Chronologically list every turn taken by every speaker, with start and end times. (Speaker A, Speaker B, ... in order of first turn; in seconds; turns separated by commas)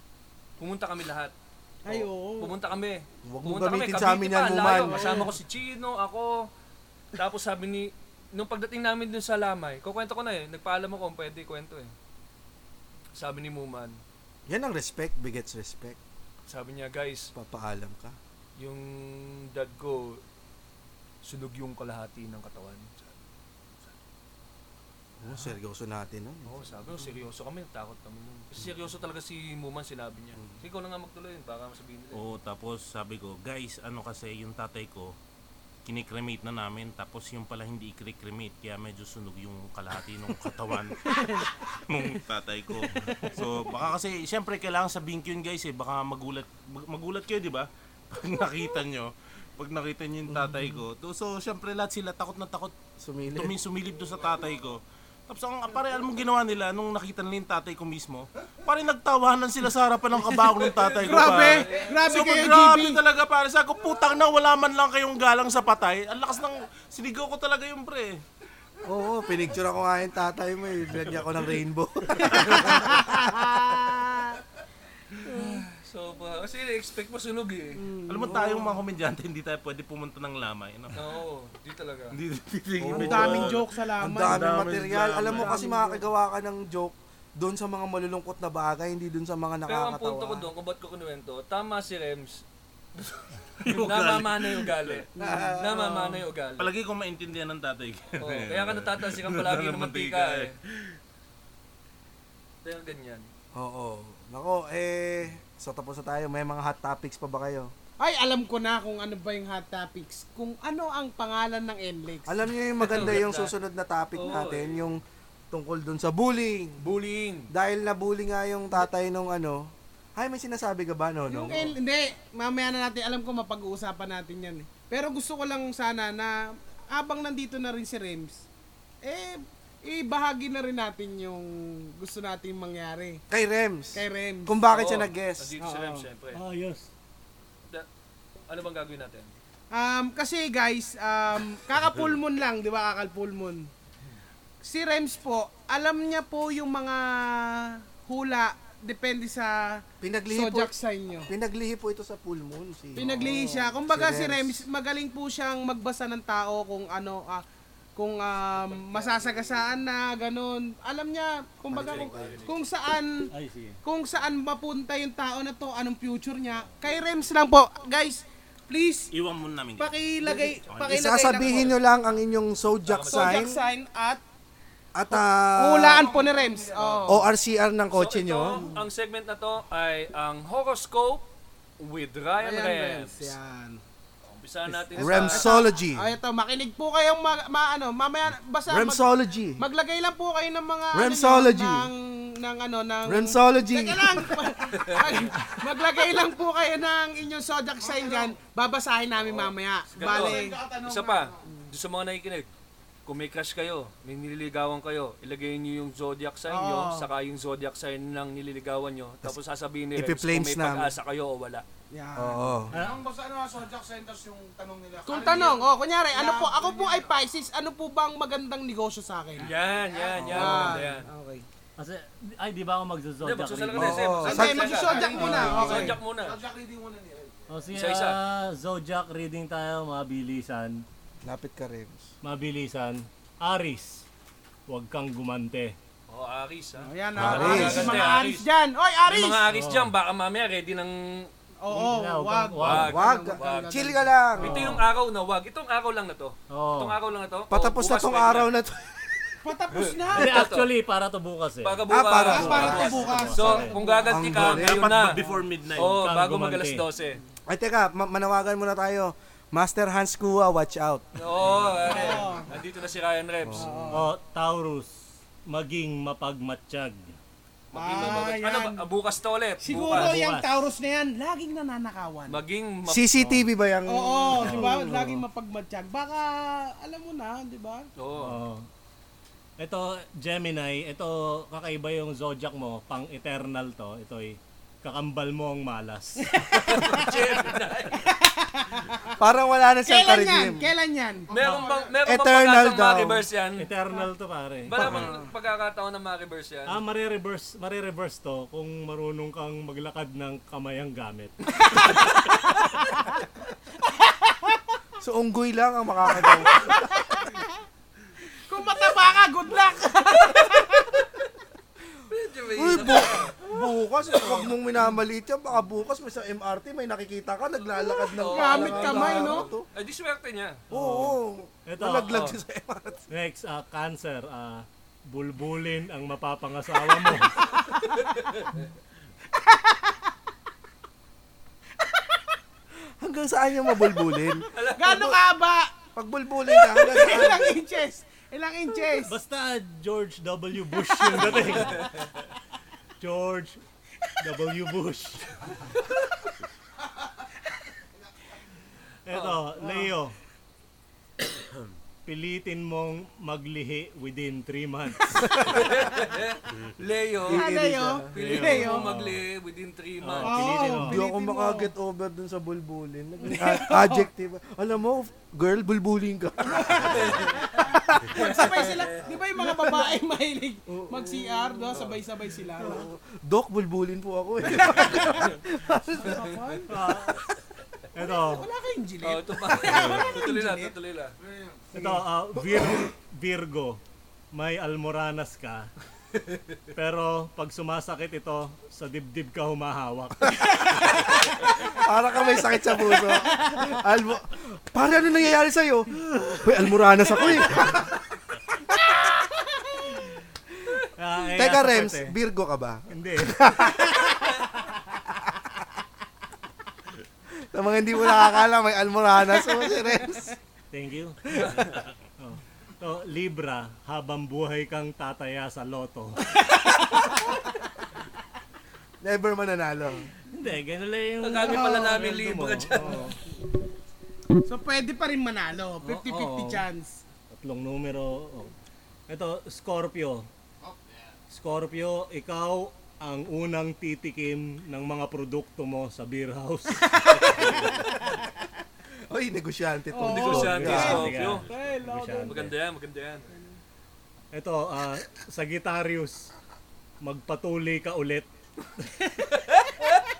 Speaker A: 0.6-1.3, Speaker B: 1.8-2.5, Speaker A: 1.9-6.5, Speaker C: 3.2-5.3, Speaker B: 4.8-5.3, Speaker A: 7.1-11.9, Speaker A: 13.2-14.0, Speaker C: 14.5-16.0, Speaker A: 16.5-17.3, Speaker C: 17.3-18.2, Speaker A: 18.6-20.2, Speaker A: 21.2-23.2, Speaker C: 25.2-27.1, Speaker A: 26.4-32.3, Speaker D: 32.1-35.1, Speaker D: 35.8-52.7, Speaker B: 41.1-41.5, Speaker B: 43.1-43.4, Speaker C: 50.3-50.7, Speaker C: 53.0-53.5, Speaker D: 53.3-68.2, Speaker A: 60.6-62.0, Speaker B: 61.0-63.0, Speaker C: 68.8-73.1, Speaker B: 72.2-74.4, Speaker B: 75.2-75.6, Speaker A: 75.2-77.9, Speaker B: 77.8-78.6, Speaker D: 78.1-81.0, Speaker C: 78.2-78.7, Speaker A: 81.0-82.2, Speaker D: 82.1-85.5, Speaker C: 82.8-90.5, Speaker B: 82.9-84.5, Speaker B: 85.3-86.0, Speaker A: 89.7-92.4, Speaker A: 93.0-96.7, Speaker D: 93.6-95.0, Speaker B: 95.2-96.2, Speaker C: 95.2-95.9, Speaker D: 96.6-100.9, Speaker A: 98.2-100.5, Speaker A: 102.6-103.2, Speaker C: 103.5-107.7, Speaker B: 108.0-112.4, Speaker C: 112.2-116.9, Speaker A: 112.8-113.5, Speaker A: 114.2-114.8, Speaker A: 116.8-117.5, Speaker C: 117.5-121.8, Speaker B: 121.3-128.4, Speaker B: 129.0-133.2, Speaker C: 133.3-135.5, Speaker B: 133.9-134.6, Speaker A: 134.7-136.4, Speaker B: 135.6-136.1, Speaker E: 136.3-136.9, Speaker A: 138.5-139.3, Speaker B: 139.7-143.7, Speaker B: 144.6-151.3, Speaker C: 150.0-150.7, Speaker C: 151.3-154.6, Speaker B: 152.9-157.4, Speaker B: 157.9-163.3, Speaker A: 158.6-159.6, Speaker C: 161.7-162.5, Speaker A: 161.7-162.6, Speaker E: 163.3-163.8, Speaker B: 163.8-169.1, Speaker D: 169.1-169.9, Speaker B: 169.8-171.8, Speaker D: 170.7-171.4, Speaker C: 170.8-173.6, Speaker A: 172.8-173.5, Speaker B: 173.1-174.2, Speaker C: 174.9-176.1, Speaker B: 175.1-177.2, Speaker F: 175.8-177.0, Speaker C: 177.1-178.7, Speaker A: 177.9-181.2, Speaker B: 178.5-178.8, Speaker A: 181.8-183.3, Speaker B: 182.4-183.8, Speaker A: 184.2-185.6, Speaker C: 184.9-186.1, Speaker B: 185.0-200.6, Speaker C: 188.7-189.6, Speaker C: 190.9-191.9, Speaker C: 193.1-194.3, Speaker A: 194.7-195.2, Speaker F: 197.8-198.4, Speaker A: 199.2-202.5, Speaker F: 199.9-201.4, Speaker A: 203.1-211.6, Speaker B: 206.5-207.1, Speaker C: 209.9-210.9, Speaker B: 211.9-212.5, Speaker C: 212.2-212.7, Speaker E: 212.7-213.0, Speaker F: 212.7-217.1, Speaker B: 215.1-219.5, Speaker A: 219.4-221.1, Speaker F: 219.4-220.3, Speaker C: 220.1-220.8, Speaker B: 220.3-221.4, Speaker E: 221.8-224.2, Speaker A: 223.2-226.4, Speaker C: 223.8-225.9, Speaker B: 224.2-226.0, Speaker F: 224.4-227.6, Speaker E: 227.5-230.8, Speaker A: 227.7-228.2, Speaker C: 231.2-232.1, Speaker E: 232.2-234.1, Speaker E: 234.7-235.7, Speaker A: 236.1-238.4, Speaker B: 236.8-239.4, Speaker C: 237.2-238.1, Speaker A: 239.1-241.3, Speaker E: 239.5-239.9, Speaker B: 241.6-244.1, Speaker E: 241.7-243.0, Speaker A: 242.6-243.9, Speaker C: 242.7-244.6, Speaker A: 244.4-248.5, Speaker E: 244.4-244.9, Speaker E: 246.5-247.0, Speaker C: 247.5-249.4, Speaker B: 249.4-250.5, Speaker A: 249.7-250.7, Speaker E: 250.1-253.8, Speaker A: 251.6-255.2, Speaker C: 251.9-252.9, Speaker B: 252.3-254.2, Speaker C: 254.1-255.0, Speaker D: 254.2-255.9, Speaker A: 255.7-257.2, Speaker E: 255.8-256.8, Speaker C: 257.5-261.9, Speaker A: 261.1-263.7, Speaker B: 261.8-262.5, Speaker C: 263.4-263.9, Speaker B: 263.5-264.1, Speaker E: 263.9-264.9, Speaker E: 265.4-267.2, Speaker A: 267.7-270.1, Speaker B: 267.7-268.8, Speaker B: 269.6-272.4, Speaker E: 269.7-270.6, Speaker A: 272.3-273.1, Speaker C: 272.9-274.9, Speaker E: 273.2-273.4, Speaker B: 273.9-277.9, Speaker E: 274.3-275.2, Speaker A: 278.0-278.4, Speaker E: 278.2-278.6, Speaker E: 279.6-286.5, Speaker B: 286.2-287.3, Speaker A: 286.6-288.1, Speaker B: 287.9-289.0, Speaker C: 289.2-290.7, Speaker B: 289.9-291.3, Speaker F: 291.3-291.9, Speaker A: 291.3-293.7, Speaker C: 292.0-293.2, Speaker E: 293.6-295.2, Speaker A: 294.7-296.8, Speaker C: 294.8-295.1, Speaker E: 296.7-302.1, Speaker B: 301.6-303.1, Speaker B: 303.9-304.6, Speaker C: 305.0-306.8, Speaker B: 306.1-307.5, Speaker B: 308.5-311.0, Speaker A: 312.1-313.4, Speaker C: 312.5-319.7, Speaker A: 317.9-320.7, Speaker B: 318.2-319.5, Speaker E: 320.7-322.2, Speaker C: 320.7-323.1, Speaker A: 322.0-322.4, Speaker E: 323.1-327.6, Speaker A: 327.7-328.5, Speaker B: 329.3-330.1, Speaker B: 331.8-332.2, Speaker C: 333.0-334.4, Speaker A: 334.5-335.2, Speaker B: 334.7-335.7, Speaker C: 335.9-337.5, Speaker B: 336.5-339.1, Speaker E: 338.9-342.1, Speaker A: 341.5-341.9, Speaker E: 343.0-343.6, Speaker E: 344.2-345.4, Speaker E: 349.0-350.1, Speaker A: 349.1-349.4, Speaker B: 349.6-349.9, Speaker E: 352.0-355.3, Speaker B: 355.1-355.6, Speaker C: 355.2-355.6, Speaker A: 355.4-360.7, Speaker C: 357.2-358.1, Speaker B: 357.3-358.9, Speaker E: 358.2-359.2, Speaker E: 360.0-361.0, Speaker B: 360.2-361.7, Speaker C: 360.8-368.3, Speaker B: 363.2-364.1, Speaker B: 366.5-372.8, Speaker A: 366.8-367.6, Speaker A: 368.1-369.0, Speaker C: 370.7-371.9, Speaker C: 372.6-376.2, Speaker B: 374.5-377.2, Speaker E: 376.7-377.3, Speaker E: 377.9-378.5, Speaker B: 378.0-380.7, Speaker A: 379.0-381.1, Speaker F: 381.2-381.7, Speaker E: 381.7-383.8, Speaker E: 384.3-385.7, Speaker E: 386.7-391.1, Speaker C: 391.6-399.1, Speaker B: 393.0-393.6, Speaker E: 400.9-402.1, Speaker C: 401.3-404.4, Speaker E: 402.9-403.8, Speaker C: 407.4-410.4, Speaker B: 409.4-409.9, Speaker E: 410.7-416.6, Speaker C: 411.3-411.6, Speaker C: 419.0-420.1, Speaker E: 420.3-423.2, Speaker A: 421.2-423.0, Speaker B: 424.4-427.0, Speaker E: 425.8-426.6, Speaker E: 427.3-428.5, Speaker E: 429.1-430.3, Speaker F: 430.6-431.1, Speaker E: 431.3-437.6, Speaker B: 436.8-437.8, Speaker C: 439.1-441.1, Speaker B: 439.9-442.4, Speaker A: 440.0-441.5, Speaker E: 440.5-442.5, Speaker A: 442.3-443.3, Speaker E: 444.3-446.3, Speaker E: 447.0-448.3, Speaker E: 448.8-449.1, Speaker A: 449.4-450.0